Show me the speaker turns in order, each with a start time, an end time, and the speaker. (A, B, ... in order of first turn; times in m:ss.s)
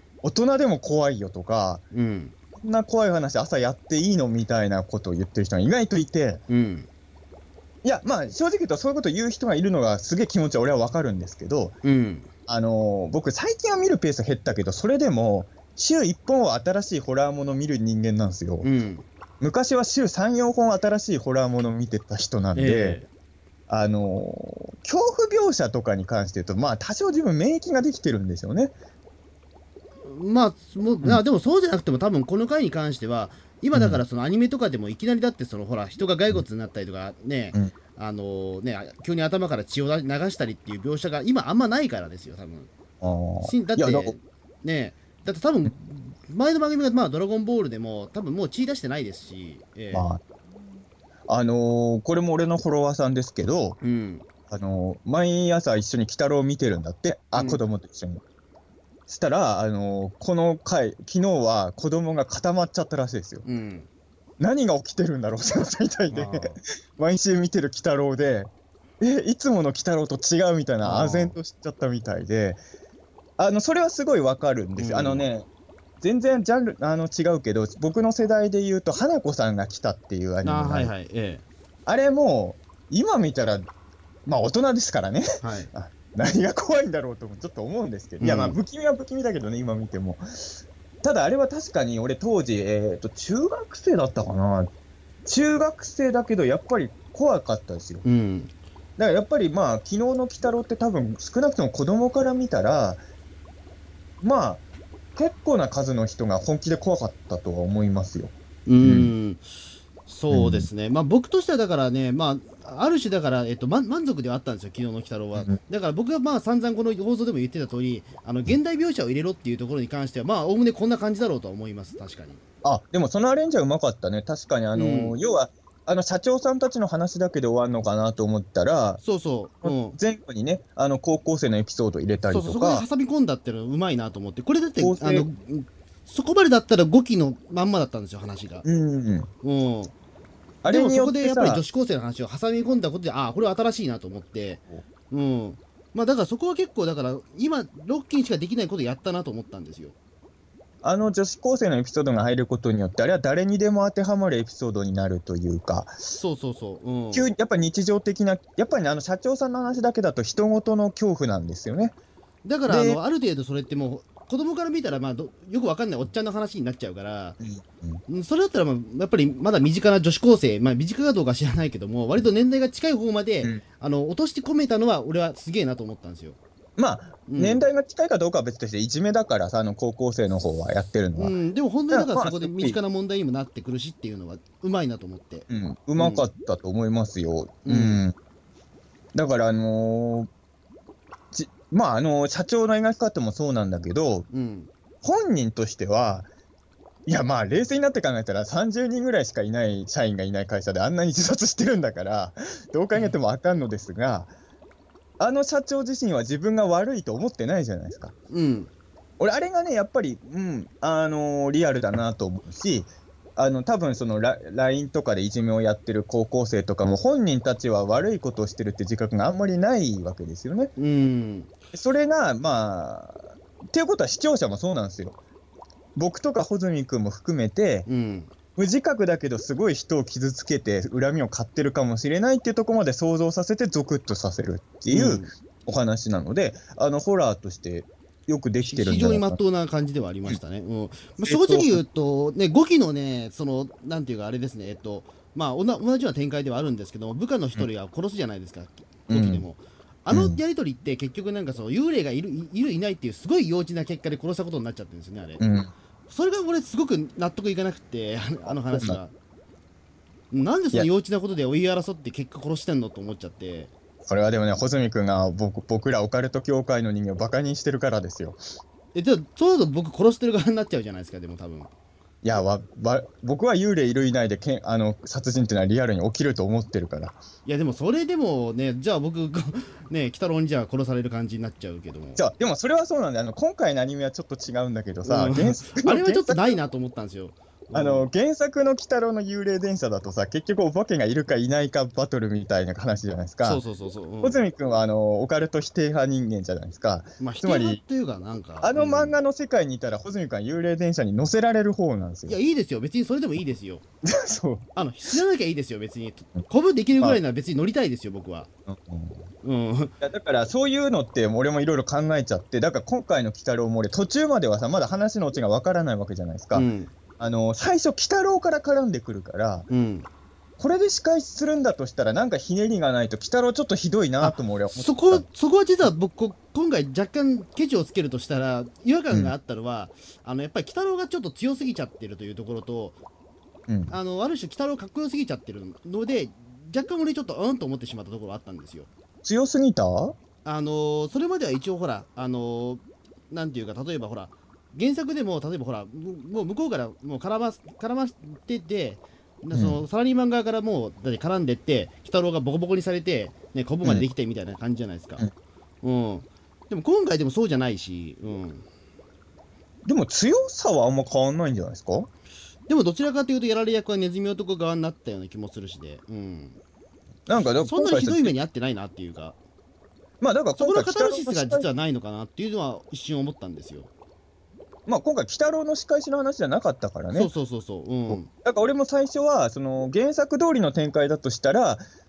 0:00.2-0:01.8 A
0:01.9-0:02.3 B
0:02.6-0:06.4 A
0:06.5-0:06.9 B
0:07.8-0:11.8 A
0:11.8-0:12.3 B
0:12.5-0:18.7 A
0:18.6-0:19.1 B
0:19.4-0:23.0 A
0:22.6-0:23.1 B
0:23.7-0:28.8 A
0:30.0-0:42.7 B
0:33.7-0:34.0 A
0:43.0-0:44.2 A
0:43.4-0:50.1 B
0:49.9-0:50.2 A
0:51.3-0:53.8 A
0:53.8-0:54.2 B
0:54.5-0:58.2 A
0:57.4-0:57.6 B
0:59.1-1:03.4 A
1:03.4-1:03.9 B
1:04.4-1:12.6 A
1:06.1-1:06.6 B
1:10.8-1:11.4 B
1:13.4-1:15.5 A
1:14.8-1:15.3 B
1:16.0-1:20.9 A
1:20.4-1:21.4 B
1:21.9-1:23.6 A
1:24.3-1:34.7 A
1:25.4-1:25.7 B
1:28.2-1:28.6 B
1:35.3-1:38.0 A
1:38.0-1:38.5 B
1:39.0-1:43.0 A
1:44.2-1:44.6 A
1:45.2-1:49.1 A
1:48.7-1:49.4 B
1:50.1-2:02.4 B
1:50.3-1:50.7 A
2:02.6-2:09.0 A
2:04.7-2:05.2 B
2:09.0-2:10.0 B
2:09.6-2:12.9 A
2:12.3-2:18.6 B
2:14.8-2:15.3 A
2:18.6-2:19.3 A
2:19.4-2:19.9 B
2:20.6-2:21.6 A
2:20.7-2:30.0 B
2:30.8-2:35.9 A
2:36.1-2:37.3 B
2:37.1-2:42.0 A
2:42.4-2:47.4 B
2:42.7-2:43.0 A
2:47.4-2:48.0 A
2:48.1-2:56.4 B
2:56.8-3:01.4 A
2:57.3-2:57.6 B
3:01.2-3:06.3 B
3:01.9-3:02.8 A
3:05.5-3:08.2 A
3:07.6-3:08.0 B
3:09.1-3:10.3 A
3:11.3-3:14.3 A
3:14.3-3:14.7 B
3:15.0-3:16.3 A
3:17.1-3:24.3 A
3:25.2-3:28.1 A
3:28.3-3:28.7 B
3:29.2-3:40.7 A
3:40.8-3:41.6 B
3:41.7-3:45.2 A
3:46.0-3:47.9 A
3:47.9-3:48.3 B
3:48.6-3:59.4 A
3:54.9-3:55.3 B
3:58.6-4:15.4 B
4:01.2-4:01.8 A
4:09.1-4:09.4 A
4:10.1-4:10.4 A
4:15.4-4:15.7 A
4:16.1-4:19.1 B
4:18.5-4:19.0 A
4:20.3-4:23.7 B
4:24.0-4:28.4 A
4:28.9-4:31.7 B
4:32.2-4:37.2 A
4:37.4-4:42.2 B
4:42.2-4:46.6 A
4:45.0-4:48.1 B
4:47.7-4:53.6 A
4:53.4-4:54.4 B
4:54.2-4:57.8 A
4:57.2-4:59.2 B
4:58.6-5:02.4 A
5:02.3-5:03.8 B
5:04.0-5:04.7 A
5:04.8-5:08.5 B
5:08.7-5:09.3 A
5:09.4-5:09.9 B
5:10.0-5:16.7 A
5:16.5-5:16.9 B
5:17.2-5:19.7 A
5:19.7-5:20.1 B
5:20.6-5:25.2 A
5:24.2-5:33.0 B
5:33.7-5:34.0 A
5:33.9-5:38.9 B
5:39.2-5:40.2 A
5:40.4-5:55.3 B
5:49.5-5:49.8 A
5:55.8-5:58.7 B
5:59.8-6:02.1 A
6:02.7-6:06.6 B
6:07.3-6:08.4 A
6:07.6-6:09.4 B
6:10.2-6:11.7 A
6:10.6-6:13.9 B
6:14.9-6:17.3 A
6:17.1-6:18.3 B
6:18.1-6:21.8 A